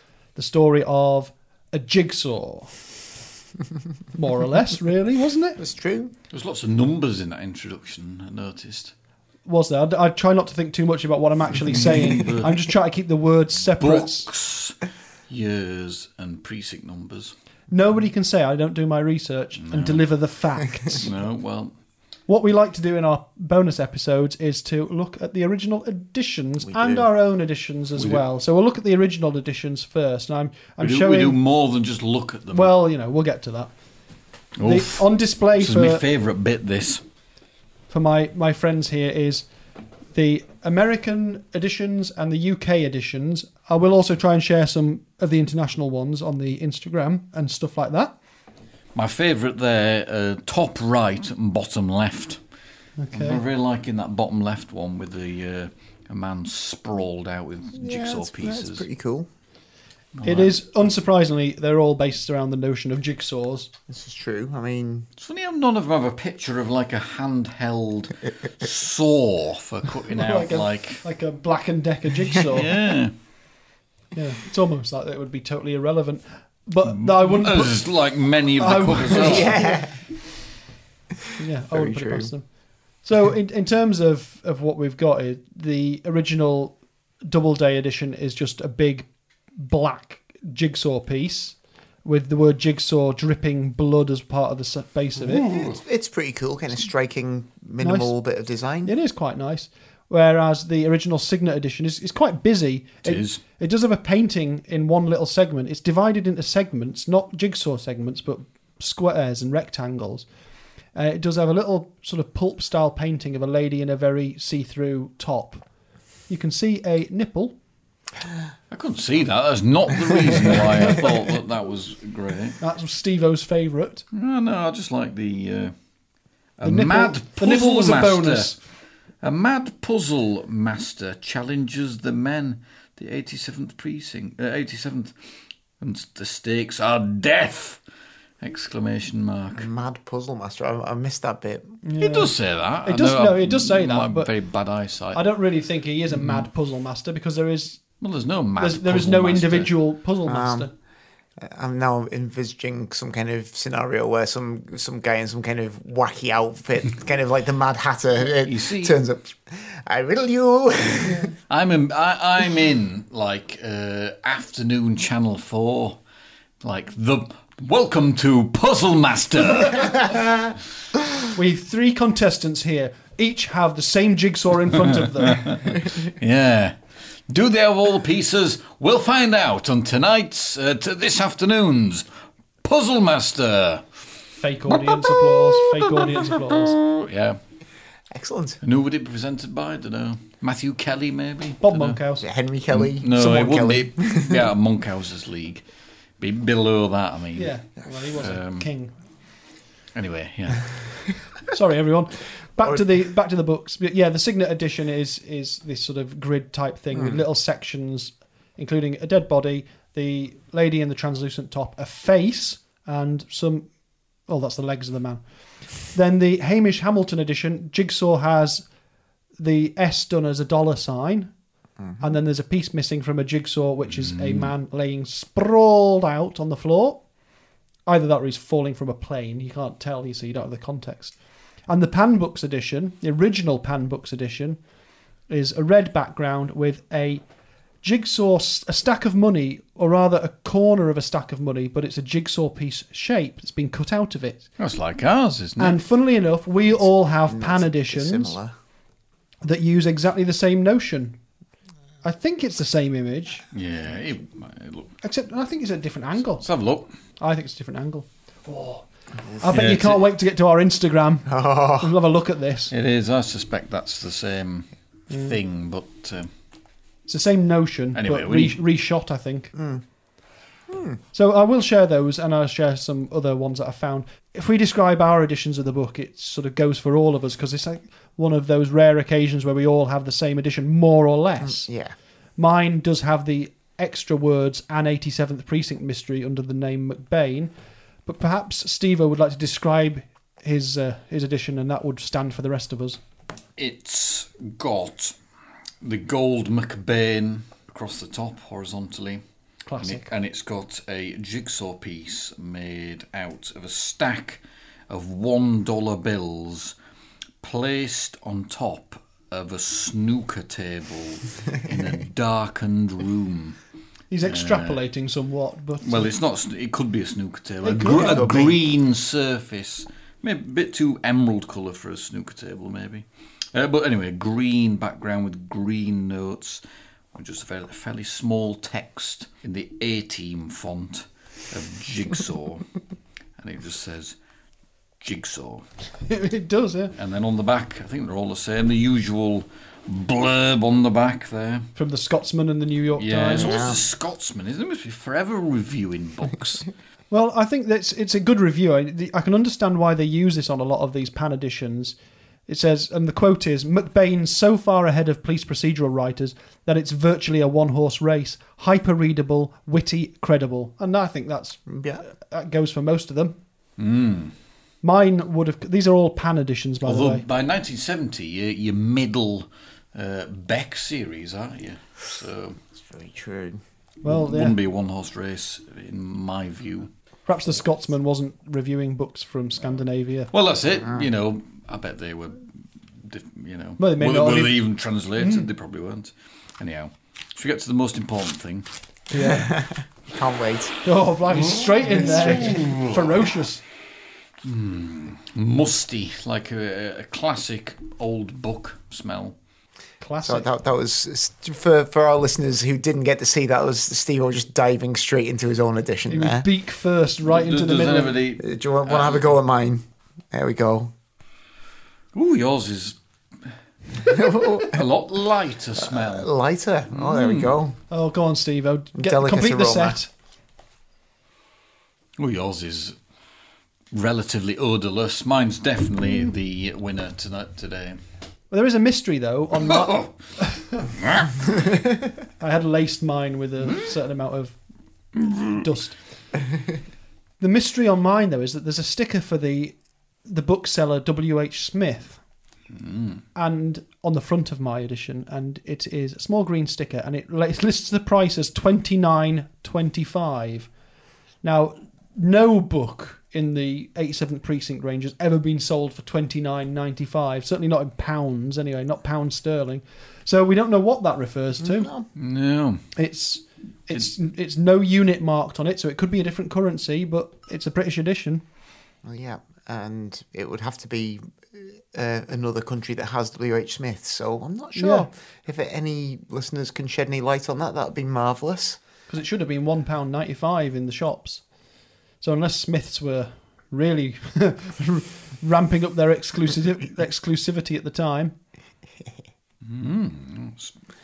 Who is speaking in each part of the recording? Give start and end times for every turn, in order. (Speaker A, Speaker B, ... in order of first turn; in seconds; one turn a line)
Speaker A: 0.3-2.8
Speaker A: 4.2-5.6
Speaker B: 5.6-6.1
Speaker C: 6.3-8.9
Speaker A: 9.4-14.3
Speaker C: 11.7-12.5
Speaker C: 13.8-17.3
Speaker A: 17.7-21.1
Speaker C: 19.6-20.0
Speaker C: 20.9-21.7
Speaker A: 22.3-31.4
Speaker B: 26.6-27.1
Speaker C: 28.0-28.2
Speaker C: 30.8-32.7
Speaker A: 32.5-33.7
Speaker C: 34.6-37.0
Speaker A: 34.6-36.0
Speaker A: 37.9-39.5
Speaker A: 40.1-48.1
Speaker C: 49.0-52.4
Speaker A: 53.0-53.4
Speaker C: 53.1-58.9
Speaker B: 57.8-59.3
Speaker C: 60.1-60.6
Speaker A: 60.2-63.7
Speaker B: 63.9-65.1
Speaker C: 65.2-71.0
Speaker A: 70.1-72.8
Speaker C: 72.5-73.1
Speaker A: 74.2-77.8
Speaker C: 77.0-79.6
Speaker A: 78.6-79.8
Speaker B: 79.2-80.0
Speaker A: 81.4-82.5
Speaker B: 81.7-82.3
Speaker A: 83.0-95.6
Speaker C: 95.2-95.8
Speaker B: 95.5-98.9
Speaker A: 97.8-98.1
Speaker A: 98.8-110.2
Speaker C: 103.0-103.4
Speaker A: 110.9-115.7
Speaker A: 116.3-117.5
Speaker C: 118.7-122.6
Speaker A: 122.6-124.0
Speaker C: 124.1-125.7
Speaker C: 126.6-128.5
Speaker A: 126.6-128.6
Speaker C: 129.2-135.1
Speaker C: 135.8-137.8
Speaker C: 138.4-139.7
Speaker B: 139.6-141.8
Speaker A: 141.8-142.3
Speaker C: 142.0-145.2
Speaker A: 142.8-144.3
Speaker A: 145.1-147.8
Speaker C: 146.2-146.4
Speaker C: 148.0-149.7
Speaker A: 148.6-150.7
Speaker B: 150.2-150.7
Speaker B: 151.4-161.3
Speaker C: 158.3-159.0
Speaker C: 161.5-166.0
Speaker C: 166.6-170.4
Speaker A: 171.3-175.6
Speaker C: 175.0-176.8
Speaker C: 177.3-182.1
Speaker C: 182.6-184.0
Speaker A: 184.4-186.8
Speaker C: 185.0-187.4
Speaker B: 188.1-188.6
Speaker C: 188.6-192.0
Speaker A: 191.6-192.3
Speaker B: 192.2-194.5
Speaker C: 192.7-195.6
Speaker C: 196.2-197.5
Speaker A: 197.3-198.9
Speaker C: 198.2-198.7
Speaker C: 199.9-200.7
Speaker A: 201.5-213.7
Speaker A: 214.3-215.2
Speaker A: 215.9-218.7
Speaker A: 219.4-221.3
Speaker A: 222.0-227.0
Speaker C: 224.0-224.5
Speaker A: 227.9-231.1
Speaker A: 231.7-234.6
Speaker A: 235.3-237.2
Speaker A: 237.8-244.4
Speaker C: 244.6-245.8
Speaker A: 245.6-248.4
Speaker B: 247.2-248.5
Speaker A: 249.4-251.2
Speaker A: 252.0-253.4
Speaker C: 253.5-254.9
Speaker A: 255.0-256.4
Speaker C: 256.4-256.9
Speaker A: 257.2-258.9
Speaker A: 259.4-262.7
Speaker C: 259.5-260.0
Speaker B: 261.3-261.9
Speaker C: 262.7-266.3
Speaker A: 265.1-265.4
Speaker A: 267.1-269.5
Speaker C: 267.9-268.6
Speaker B: 269.6-269.8
Speaker B: 270.7-271.0
Speaker A: 271.1-281.7
Speaker B: 281.4-281.9
Speaker A: 282.4-287.5
Speaker A: 288.1-293.0
Speaker C: 293.6-295.1
Speaker C: 295.8-299.2
Speaker A: 299.7-300.1
Speaker C: 299.8-306.7
Speaker C: 307.4-313.6
Speaker A: 314.1-316.1
Speaker C: 314.2-314.8
Speaker C: 315.8-326.6
Speaker A: 317.6-318.5
Speaker B: 317.8-318.6
Speaker C: 327.1-332.7
Speaker C: 333.4-334.2
Speaker C: 335.0-335.6
Speaker A: 336.1-336.9
Speaker C: 337.0-341.7
Speaker A: 341.8-343.7
Speaker C: 343.0-346.7
Speaker B: 343.4-343.8
Speaker A: 347.1-351.9
Speaker A: 352.5-363.4
Speaker B: 361.7-362.0
Speaker C: 363.8-364.3
Speaker A: 364.8-367.2
Speaker C: 366.8-372.6
Speaker B: 372.8-373.6
Speaker A: 374.0-374.6
Speaker C: 374.1-376.9
Speaker A: 377.3-380.3
Speaker C: 380.3-382.5
Speaker C: 383.0-388.7
Speaker A: 383.8-384.6
Speaker A: 385.2-385.5
Speaker A: 389.1-389.6
Speaker B: 389.2-390.8
Speaker A: 390.8-393.6
Speaker C: 391.4-393.2
Speaker B: 391.9-392.7
Speaker C: 394.4-399.4
Speaker A: 400.0-400.5
Speaker B: 400.2-406.4
Speaker A: 406.1-408.2
Speaker C: 407.2-409.3
Speaker B: 408.4-410.9
Speaker C: 412.1-412.9
Speaker C: 414.0-416.3
Speaker B: 414.0-414.8
Speaker B: 415.8-417.8
Speaker C: 416.9-417.6
Speaker A: 417.9-420.1
Speaker B: 418.9-420.0
Speaker C: 422.2-422.9
Speaker C: 423.9-428.0
Speaker A: 428.5-430.9
Speaker C: 429.6-430.1
Speaker C: 430.9-431.6
Speaker A: 432.4-434.6
Speaker A: 435.4-435.9
Speaker A: 437.4-442.2
Speaker C: 442.8-443.2
Speaker A: 443.4-450.7
Speaker A: 451.4-461.9
Speaker B: 461.6-462.1
Speaker C: 462.1-462.9
Speaker A: 462.9-468.4
Speaker B: 469.0-478.8
Speaker A: 474.8-475.1
Speaker A: 479.1-481.4
Speaker A: 482.2-488.3
Speaker C: 489.6-490.8